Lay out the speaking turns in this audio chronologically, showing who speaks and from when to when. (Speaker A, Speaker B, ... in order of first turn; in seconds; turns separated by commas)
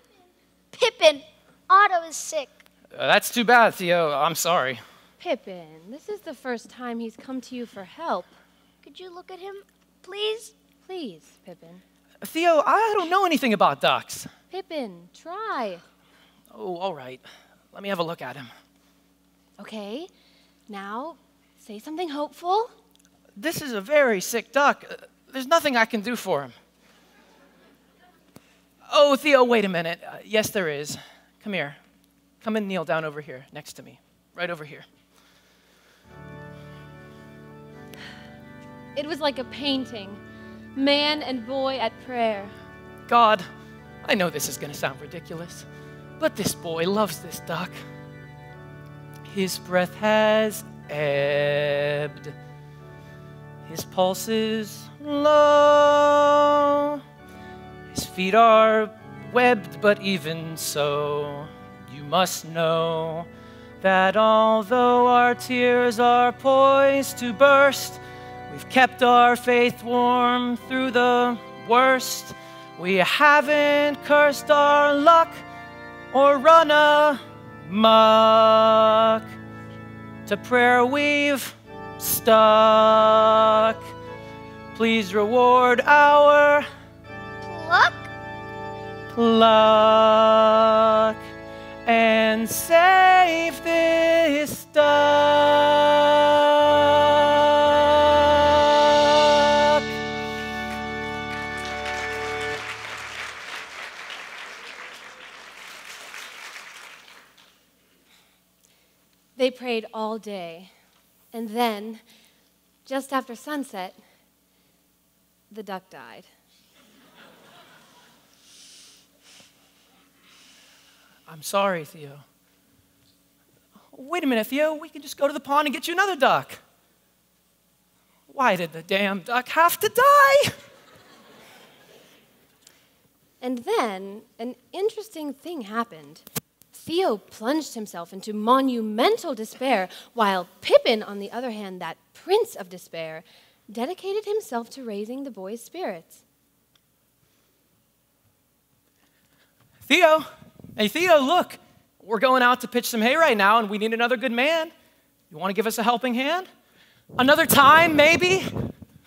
Speaker A: 0.7-2.6, Speaker B: 2.9-4.8, Speaker C: 5.2-8.3, Speaker A: 8.8-10.5, Speaker C: 10.8-11.8, Speaker B: 12.2-14.3, Speaker C: 14.5-15.8, Speaker B: 16.5-18.5, Speaker C: 19.6-20.1, Speaker C: 20.7-22.7, Speaker B: 23.4-26.5, Speaker B: 28.9-31.8, Speaker B: 32.4-34.9, Speaker C: 38.9-40.2, Speaker C: 40.8-42.5, Speaker B: 43.1-43.5, Speaker B: 44.0-45.6, Speaker B: 46.2-47.8, Speaker B: 49.3-52.3, Speaker B: 53.7-57.0, Speaker B: 57.9-63.3, Speaker B: 63.8-75.4, Speaker B: 76.1-79.2, Speaker B: 80.3-83.8, Speaker B: 84.7-86.7, Speaker A: 87.4-88.1, Speaker B: 89.1-91.2, Speaker B: 91.8-99.8, Speaker C: 109.3-110.7, Speaker C: 111.3-112.0, Speaker C: 112.8-114.0, Speaker C: 115.5-116.3, Speaker B: 121.3-122.2, Speaker B: 123.9-126.6, Speaker B: 128.3-130.5, Speaker C: 133.4-146.2, Speaker B: 149.9-154.7, Speaker B: 155.3-156.5, Speaker B: 157.2-158.5